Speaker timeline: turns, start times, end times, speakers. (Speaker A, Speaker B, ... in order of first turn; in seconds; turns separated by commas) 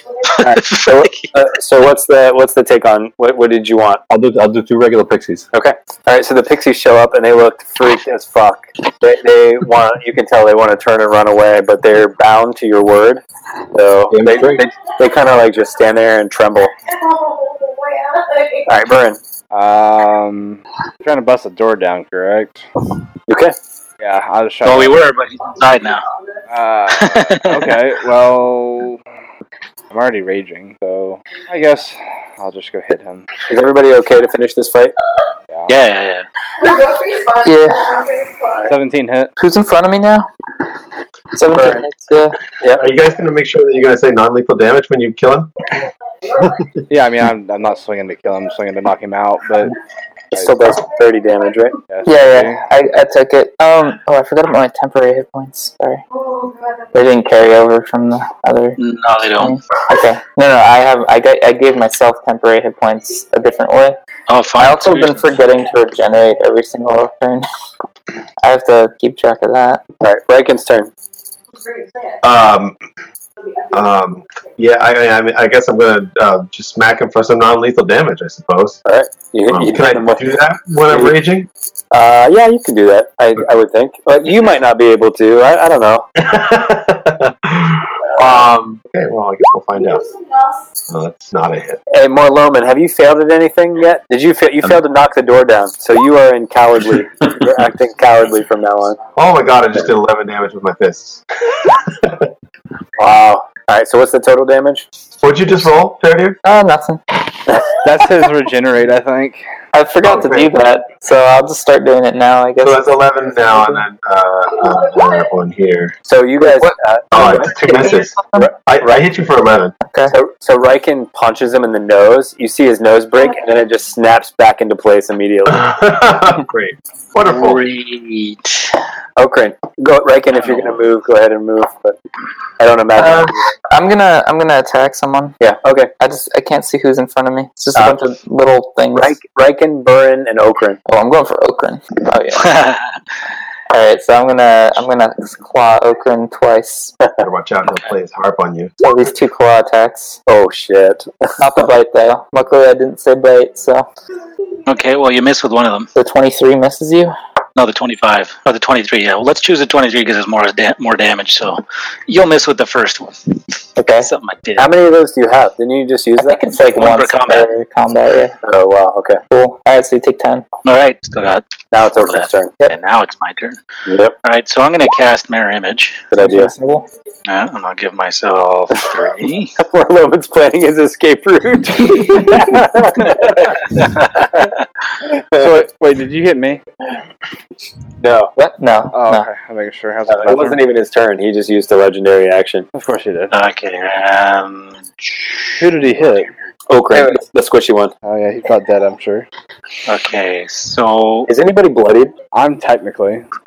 Speaker A: 0.3-1.3, Speaker B: 0.4-4.0, Speaker C: 4.1-5.5, Speaker B: 5.5-13.2, Speaker B: 13.7-16.7, Speaker C: 14.1-14.7, Speaker B: 18.7-19.2, Speaker D: 19.5-22.6, Speaker B: 23.3-23.6, Speaker D: 24.0-25.0, Speaker A: 24.6-26.0, Speaker D: 26.5-29.0, Speaker A: 26.9-27.8, Speaker D: 29.9-33.3, Speaker B: 33.5-35.0, Speaker A: 35.7-36.3, Speaker E: 37.4-38.0, Speaker D: 38.7-39.3, Speaker E: 39.4-40.3, Speaker E: 41.3-42.4, Speaker B: 41.5-41.8, Speaker F: 42.7-45.5, Speaker D: 46.9-49.7, Speaker B: 50.3-51.8, Speaker D: 50.3-50.7, Speaker D: 51.9-52.6, Speaker E: 52.0-56.0, Speaker E: 56.9-58.8, Speaker A: 58.8-59.6, Speaker E: 59.4-64.0, Speaker A: 64.3-65.3, Speaker E: 64.6-67.5, Speaker E: 68.4-69.8, Speaker B: 70.0-70.9, Speaker F: 72.2-72.8, Speaker F: 73.7-78.8, Speaker B: 78.8-81.2, Speaker F: 79.5-81.5, Speaker B: 81.9-86.1, Speaker F: 86.2-90.1, Speaker F: 90.9-91.8, Speaker B: 91.9-99.0, Speaker F: 99.2-102.3, Speaker B: 103.0-104.8, Speaker F: 105.2-106.4, Speaker E: 106.4-107.0, Speaker D: 107.8-109.4, Speaker E: 109.7-112.9, Speaker F: 110.0-110.5, Speaker F: 112.6-116.0, Speaker B: 116.1-119.0, Speaker E: 116.4-118.5, Speaker F: 117.1-119.8, Speaker E: 119.8-120.2, Speaker B: 120.1-125.7, Speaker F: 125.5-127.6, Speaker A: 127.3-128.8, Speaker B: 129.2-132.0, Speaker A: 130.3-130.8, Speaker B: 132.6-133.5, Speaker E: 133.0-135.4, Speaker B: 135.4-135.9, Speaker E: 136.0-139.2, Speaker B: 138.9-140.8, Speaker E: 140.9-142.6, Speaker A: 142.4-142.8, Speaker E: 143.7-146.9, Speaker F: 147.2-148.7, Speaker E: 148.8-150.2, Speaker B: 150.3-151.2, Speaker E: 151.4-153.9, Speaker A: 154.7-155.9, Speaker E: 155.9-157.1, Speaker A: 157.6-163.2, Speaker E: 163.8-164.1, Speaker A: 164.0-164.7, Speaker B: 164.6-166.4, Speaker E: 166.2-168.4, Speaker A: 166.8-167.5, Speaker B: 168.4-169.2, Speaker E: 169.3-170.4, Speaker A: 170.7-173.6, Speaker B: 171.7-172.5, Speaker C: 173.9-174.1, Speaker A: 174.2-176.1, Speaker B: 176.1-176.5, Speaker E: 176.2-176.9, Speaker A: 177.3-179.5, Speaker B: 179.6-184.5, Speaker D: 185.3-186.6, Speaker B: 185.3-185.6, Speaker B: 188.0-188.3, Speaker E: 188.4-189.3, Speaker D: 188.9-190.6, Speaker B: 190.1-192.7, Speaker D: 192.7-193.3, Speaker A: 193.3-195.2, Speaker D: 195.6-196.3, Speaker B: 196.7-197.9, Speaker D: 198.0-199.3, Speaker A: 199.9-201.3, Speaker B: 201.3-202.1, Speaker D: 202.3-203.2